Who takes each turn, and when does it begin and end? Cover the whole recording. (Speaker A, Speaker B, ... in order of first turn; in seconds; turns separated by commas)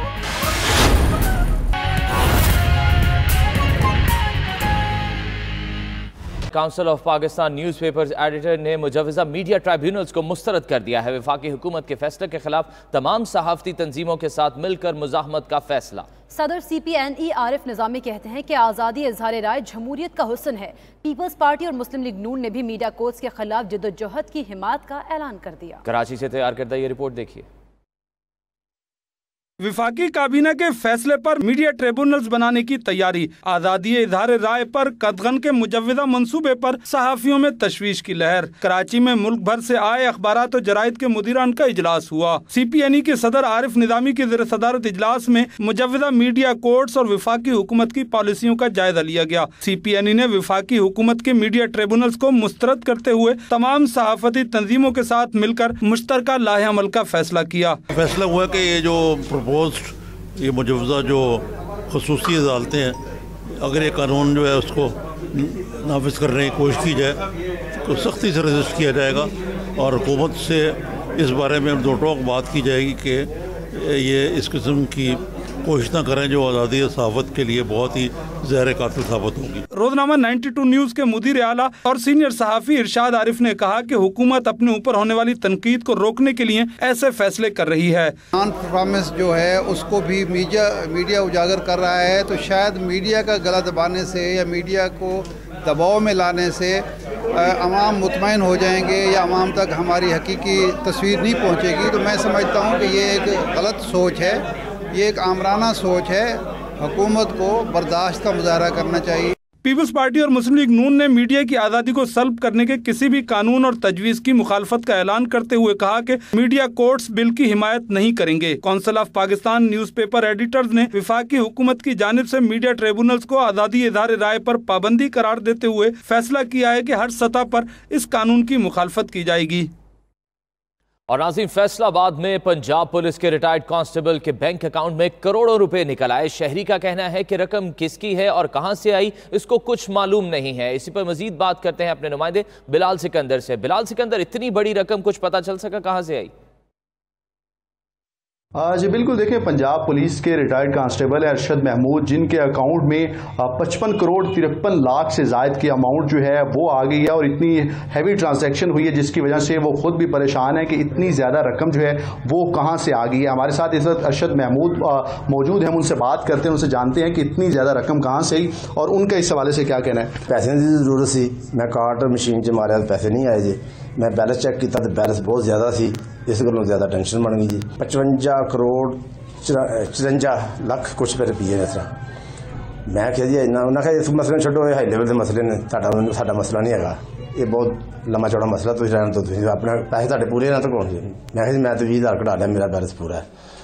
Speaker A: 6.5-16.1, Speaker B: 16.3-25.8, Speaker A: 25.8-27.4, Speaker C: 29.6-57.8, Speaker D: 57.9-63.0, Speaker D: 63.6-67.2, Speaker D: 67.8-79.6, Speaker C: 79.7-88.2, Speaker E: 88.3-109.3, Speaker C: 109.6-129.7, Speaker A: 131.1-146.3, Speaker F: 148.6-170.2, Speaker G: 170.2-182.0, Speaker G: 182.8-193.2